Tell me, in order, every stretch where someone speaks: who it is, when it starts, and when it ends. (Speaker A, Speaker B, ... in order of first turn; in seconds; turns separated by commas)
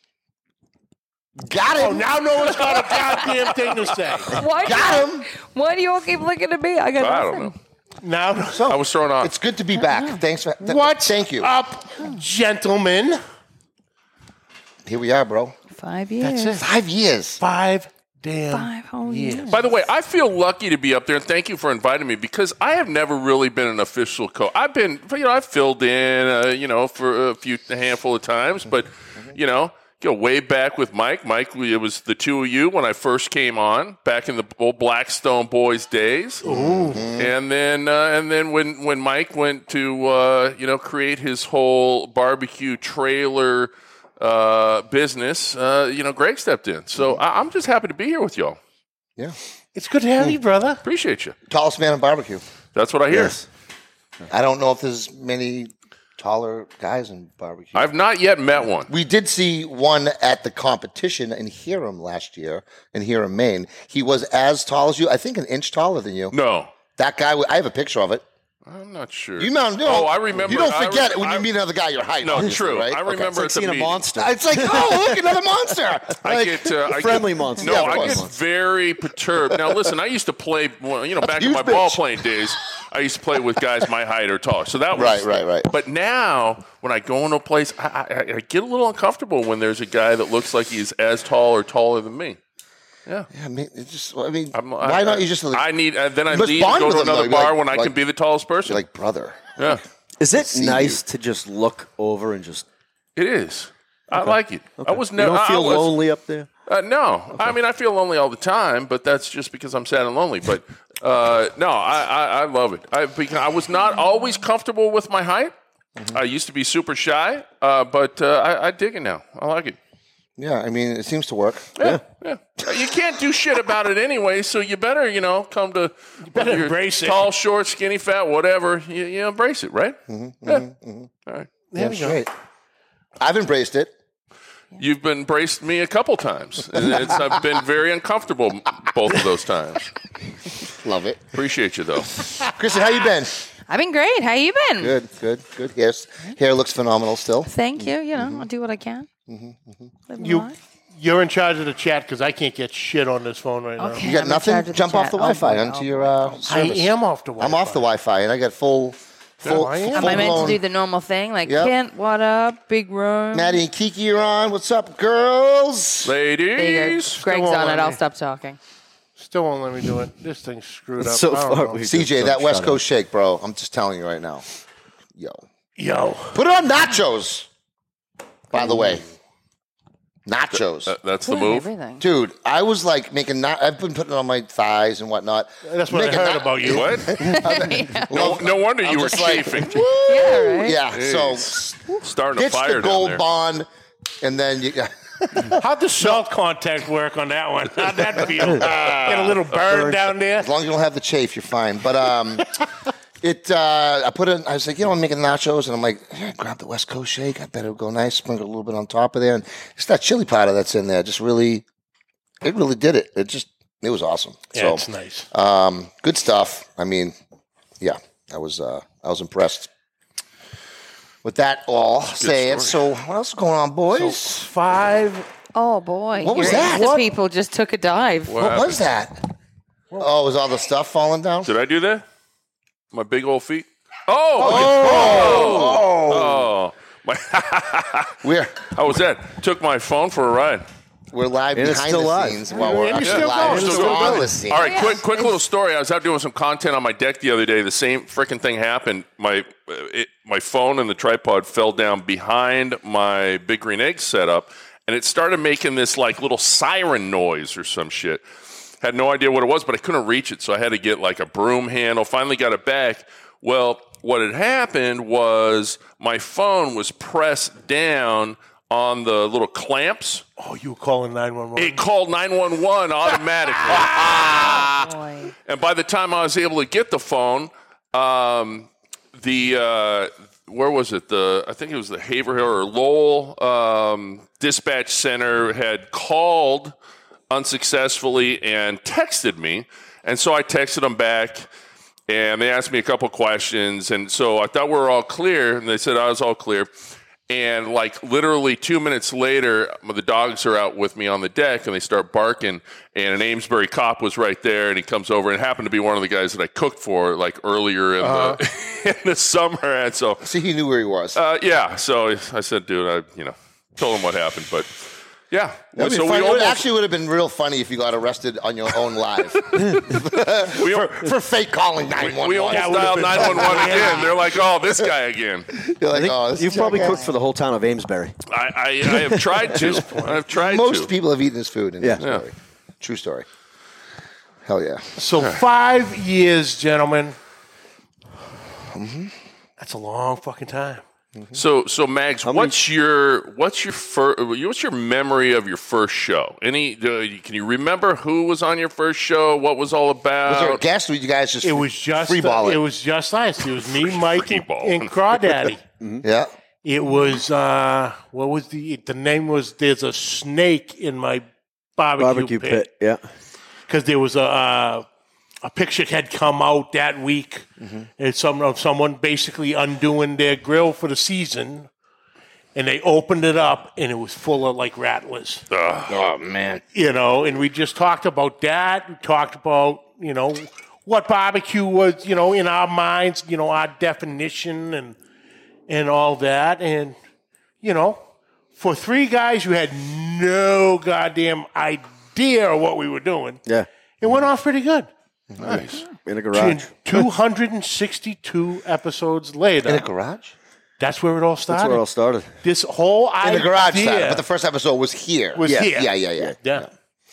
Speaker A: 1.4-3.6, Speaker B: 1.7-4.4, Speaker C: 4.3-7.5, Speaker A: 4.5-5.3, Speaker D: 7.0-7.5, Speaker B: 8.0-8.7, Speaker A: 8.5-11.5, Speaker D: 8.7-9.3, Speaker C: 9.8-10.2, Speaker B: 10.6-13.2, Speaker A: 14.8-15.5, Speaker C: 15.7-16.6, Speaker B: 16.2-16.7, Speaker A: 16.6-17.4, Speaker B: 17.4-19.6, Speaker C: 18.5-19.6, Speaker D: 19.5-36.4, Speaker B: 36.4-37.1, Speaker A: 36.4-37.3, Speaker D: 37.2-48.6, Speaker B: 49.8-50.8, Speaker D: 50.8-51.4, Speaker A: 51.5-52.4, Speaker D: 52.8-53.4, Speaker E: 53.1-53.5, Speaker A: 54.3-57.9, Speaker D: 57.8-58.9, Speaker A: 58.9-66.3, Speaker D: 66.3-66.7, Speaker A: 67.0-68.2, Speaker D: 68.7-71.5, Speaker A: 69.4-73.1, Speaker D: 72.2-74.0, Speaker E: 72.4-75.1, Speaker A: 74.2-76.8, Speaker D: 76.2-92.4, Speaker E: 76.9-78.4, Speaker A: 77.6-78.2, Speaker A: 81.3-82.0, Speaker A: 84.9-85.7, Speaker A: 93.3-95.7, Speaker D: 94.5-98.8, Speaker A: 96.3-97.9, Speaker A: 98.6-99.7, Speaker E: 100.2-102.6, Speaker A: 100.4-101.0, Speaker D: 103.2-105.9, Speaker E: 104.2-106.5, Speaker D: 106.7-115.5, Speaker D: 116.1-119.8, Speaker A: 120.4-121.7, Speaker D: 121.8-130.6, Speaker B: 126.3-127.2, Speaker A: 130.1-131.1, Speaker B: 131.7-132.2, Speaker A: 131.8-132.3, Speaker A: 133.2-133.9, Speaker D: 134.8-139.9, Speaker A: 140.8-141.3, Speaker D: 141.3-142.2, Speaker A: 142.4-143.3, Speaker C: 143.7-145.0, Speaker A: 144.8-147.5, Speaker C: 147.5-149.1, Speaker A: 148.1-148.5, Speaker A: 149.3-149.9, Speaker C: 150.1-150.6, Speaker B: 150.2-154.1, Speaker C: 153.8-156.3, Speaker A: 154.0-160.6, Speaker B: 156.5-157.8, Speaker B: 159.4-160.6, Speaker C: 159.9-163.6, Speaker A: 161.5-161.7, Speaker A: 163.3-166.1, Speaker D: 166.0-167.2, Speaker C: 166.6-168.6, Speaker B: 167.2-168.0, Speaker B: 169.2-171.8, Speaker E: 171.0-172.8, Speaker A: 171.8-174.4, Speaker A: 175.2-175.4, Speaker B: 175.8-176.4, Speaker A: 176.3-177.5, Speaker A: 178.5-179.0, Speaker E: 178.6-179.0, Speaker A: 180.2-180.9, Speaker D: 180.6-181.7, Speaker C: 181.2-182.0, Speaker A: 182.0-193.7, Speaker B: 185.6-187.0, Speaker D: 186.7-187.2, Speaker C: 187.2-188.2, Speaker D: 188.1-190.0, Speaker C: 189.9-190.8, Speaker D: 190.9-193.2, Speaker A: 194.2-196.2, Speaker B: 195.5-200.5, Speaker A: 198.4-199.4, Speaker E: 199.7-200.0, Speaker A: 200.4-202.5, Speaker A: 203.2-211.6, Speaker A: 212.4-217.1, Speaker B: 214.5-215.3, Speaker A: 217.8-219.7, Speaker A: 221.2-224.5, Speaker D: 222.2-222.8, Speaker B: 223.9-225.3, Speaker C: 225.5-228.4, Speaker A: 226.2-227.0, Speaker B: 226.2-227.1, Speaker D: 228.3-228.8, Speaker A: 228.4-229.2, Speaker A: 230.0-231.5, Speaker D: 231.4-232.0, Speaker D: 232.9-238.1, Speaker A: 234.4-236.5, Speaker B: 234.4-235.7, Speaker A: 238.2-238.7, Speaker D: 238.7-240.6, Speaker A: 241.1-245.0, Speaker E: 241.6-244.3, Speaker B: 242.6-244.2, Speaker D: 243.0-258.2, Speaker C: 244.5-245.4, Speaker D: 258.8-270.2, Speaker B: 270.4-271.8, Speaker D: 271.6-274.9, Speaker B: 273.7-274.4, Speaker C: 274.3-275.3, Speaker D: 275.5-286.7, Speaker D: 287.3-291.5, Speaker D: 292.1-296.7, Speaker D: 297.3-310.3, Speaker B: 308.0-308.3, Speaker A: 310.2-311.2, Speaker D: 311.1-316.6, Speaker A: 315.8-324.1, Speaker D: 320.4-320.9, Speaker D: 322.0-325.5, Speaker B: 322.5-324.2, Speaker A: 325.6-327.0, Speaker E: 325.9-328.1, Speaker C: 326.5-327.1, Speaker D: 328.3-330.9, Speaker E: 329.0-329.6, Speaker B: 329.6-330.2, Speaker A: 330.3-333.2, Speaker A: 334.4-334.9, Speaker B: 335.0-337.1, Speaker A: 338.7-339.1, Speaker B: 339.6-340.8, Speaker D: 341.3-350.6, Speaker E: 342.2-342.6, Speaker A: 350.2-352.6, Speaker B: 351.4-355.6, Speaker D: 353.6-354.9, Speaker E: 355.8-356.1, Speaker A: 356.0-356.3, Speaker B: 356.6-361.2, Speaker B: 361.8-362.7, Speaker E: 362.0-363.0, Speaker B: 363.7-364.9, Speaker B: 365.4-367.5, Speaker A: 367.6-367.9, Speaker B: 368.0-371.7, Speaker B: 372.6-375.4, Speaker D: 375.5-376.1, Speaker A: 375.9-376.6, Speaker B: 376.7-385.0, Speaker B: 385.7-387.0, Speaker B: 387.6-388.0, Speaker B: 388.6-393.4, Speaker B: 394.0-394.9, Speaker A: 395.3-395.6, Speaker D: 395.4-395.8, Speaker E: 396.0-396.7, Speaker B: 396.3-399.9, Speaker A: 399.6-400.3, Speaker B: 400.8-401.9, Speaker E: 401.5-402.3, Speaker B: 402.4-404.2, Speaker A: 403.2-406.6, Speaker B: 405.4-406.7, Speaker E: 405.4-406.4